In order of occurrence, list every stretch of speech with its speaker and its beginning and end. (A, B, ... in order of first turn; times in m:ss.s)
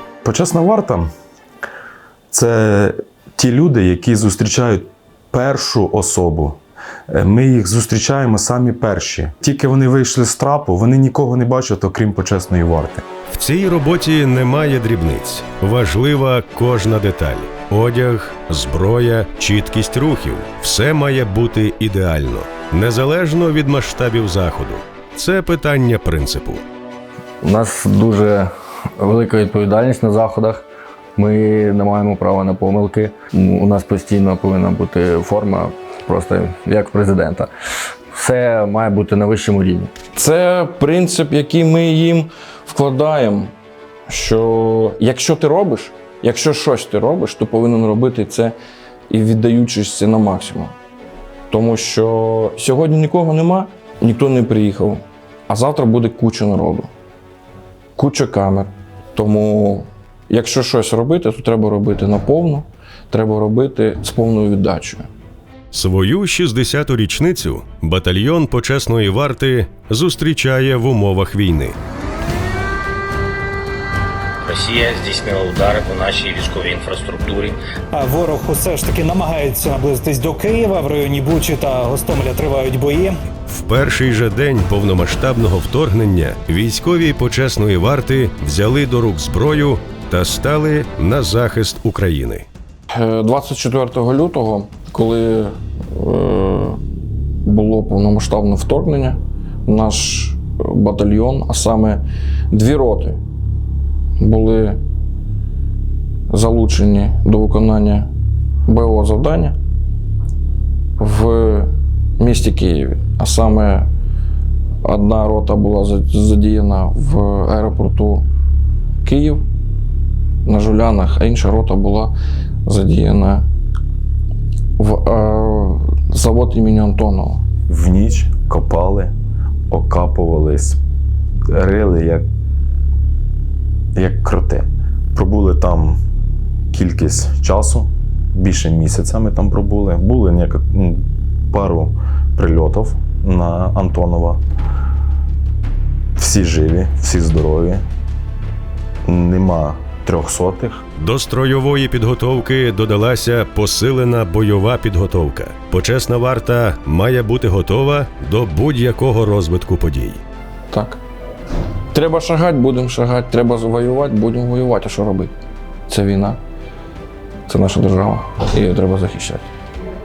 0:00.2-0:01.1 A
0:02.3-0:13.0 A
0:13.3-0:26.6 B
0:27.4-0:30.7 C
0:31.2-0:37.5 C
0:38.1-0:39.9 C
0:40.1-0:43.5 D
0:44.1-0:48.6 D
0:49.1-0:50.8 D
0:51.5-0:56.9 D
0:58.0-1:05.1 D
1:05.7-1:11.8 B
1:14.4-1:17.6 E
1:17.9-1:23.2 F
1:23.5-1:32.5 B
1:32.9-1:36.8 D
1:37.4-1:43.2 D
1:44.2-1:44.8 D
1:46.3-1:48.1 D
1:48.7-1:49.6 D
1:51.0-1:53.9 D
1:54.8-1:58.3 D
1:59.0-1:59.5 D
2:00.5-2:02.2 D
2:02.7-2:03.5 D
2:04.8-2:07.4 D
2:07.7-2:09.1 A
2:09.7-2:10.8 A
2:11.5-2:12.3 A
2:14.0-2:16.0 A
2:16.7-2:24.4 A
2:26.2-2:27.8 A
2:29.1-2:30.8 A
2:31.0-2:40.2 B
2:40.7-2:41.0 D
2:41.9-2:45.3 D
2:45.9-2:46.4 D
2:47.5-2:49.5 D